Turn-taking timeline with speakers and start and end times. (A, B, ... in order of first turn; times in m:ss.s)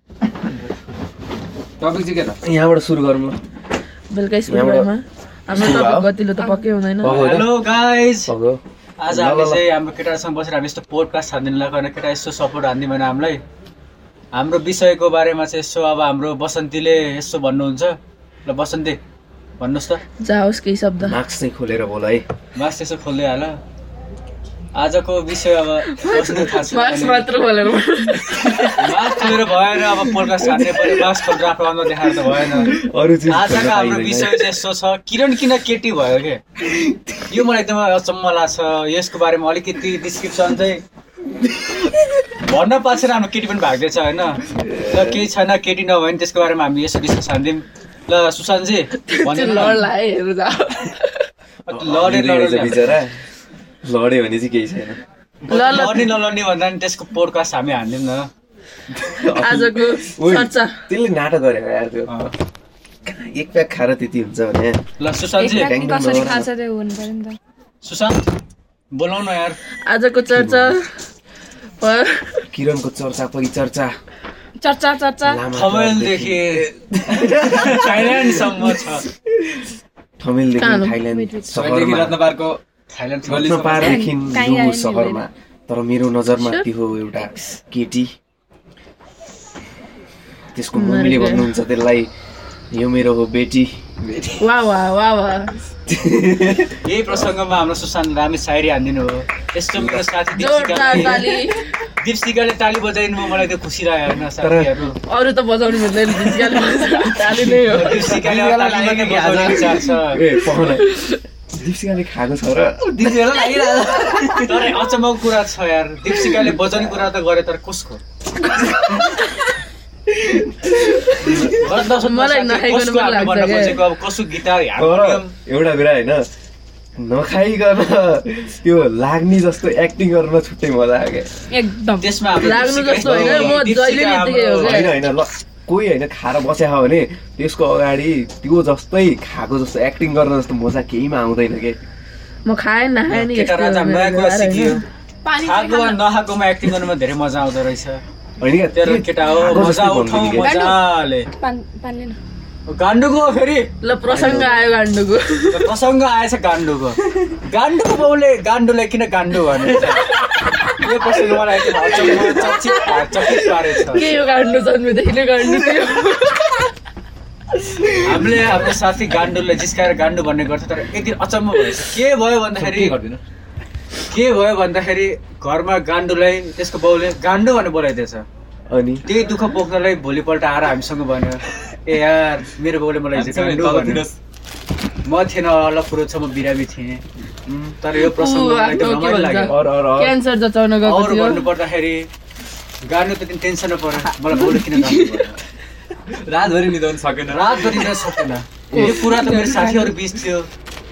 0:01.8-0:02.4 A
0:02.4-0:03.4 B
0:04.1-0:07.2 C
0:04.5-0:04.9 B
0:05.5-0:06.1 B
0:07.0-0:07.6 B
0:07.0-0:08.3 D
0:07.1-0:07.4 A
0:08.2-0:09.6 B
0:09.0-0:13.4 D
0:14.4-0:19.0 D
0:19.6-0:20.0 D
0:20.2-0:21.2 C
0:21.0-0:22.3 B
0:22.6-0:23.6 D
0:24.8-0:27.3 D
0:26.0-0:29.0 C
0:28.8-0:32.8 D
0:32.5-0:34.6 B
0:33.3-0:36.4 D
0:36.6-0:37.2 B
0:37.3-0:40.8 D
0:42.4-0:49.8 D
0:44.5-0:45.2 B
0:49.0-0:51.2 C
0:51.7-0:53.0 D
0:51.7-0:53.2 B
0:53.8-0:55.0 B
0:55.5-0:58.3 D
0:55.5-0:56.1 C
0:59.0-1:02.3 B
0:59.2-1:00.8 C
1:03.0-1:04.8 B
1:05.0-1:05.8 D
1:05.4-1:07.4 E
1:05.4-1:06.5 B
1:07.8-1:08.2 D
1:08.9-1:09.6 D
1:09.9-1:10.8 C
1:10.3-1:10.7 B
1:11.8-1:12.4 C
1:12.5-1:13.9 B
1:14.6-1:15.4 E
1:15.2-1:18.8 B
1:15.5-1:19.0 D
1:20.2-1:22.2 B
1:20.6-1:21.0 C
1:21.1-1:21.5 E
1:21.5-1:22.6 A
1:21.6-1:22.1 D
1:22.9-1:24.0 D
1:23.3-1:23.9 A
1:23.3-1:28.1 B
1:23.8-1:25.2 E
1:26.4-1:26.6 C
1:30.6-1:32.1 B
1:30.8-1:31.5 C
1:32.7-1:34.4 B
1:34.4-1:35.5 C
1:35.9-1:36.8 B
1:36.8-1:41.4 D
1:40.3-1:41.6 C
1:40.8-1:41.2 B
1:42.0-1:45.0 D
1:44.4-1:44.8 B
1:45.1-1:48.0 C
1:47.6-1:49.8 A
1:47.7-1:50.3 D
1:49.3-1:50.9 B
1:50.8-1:51.2 C
1:51.6-1:52.9 B
1:52.8-1:54.8 A
1:54.4-1:58.0 D
2:00.2-2:00.5 B
2:01.2-2:01.5 B
2:01.4-2:05.3 D
2:02.0-2:03.8 C
2:04.8-2:06.3 B
2:07.0-2:11.3 B
2:11.5-2:12.2 E
2:12.0-2:14.9 D
2:12.4-2:14.9 C
2:12.9-2:13.7 B
2:14.6-2:21.8 B
2:22.5-2:24.8 C
2:23.1-2:24.8 D
2:25.2-2:26.0 E
2:25.4-2:28.0 D
2:28.4-2:30.5 B
2:28.7-2:31.3 D
2:30.4-2:30.8 E
2:31.4-2:32.2 E
2:32.7-2:33.7 D
2:33.8-2:35.7 C
2:34.1-2:34.6 B
2:35.5-2:40.1 D
2:40.6-2:44.1 D
2:41.9-2:42.7 C
2:43.5-2:46.7 C
2:48.0-2:53.0 D
2:52.6-2:53.2 A
2:54.1-2:58.2 D
2:58.7-2:59.0 B
2:59.0-3:04.1 D
3:03.1-3:04.1 A
3:05.1-3:07.0 D
3:07.8-3:09.6 D
3:08.0-3:11.4 C
3:09.5-3:10.2 B
3:10.8-3:12.1 D
3:12.9-3:15.4 D
3:14.3-3:15.2 C
3:16.2-3:18.1 A
3:17.3-3:20.5 D
3:18.7-3:19.0 B
3:18.8-3:19.9 C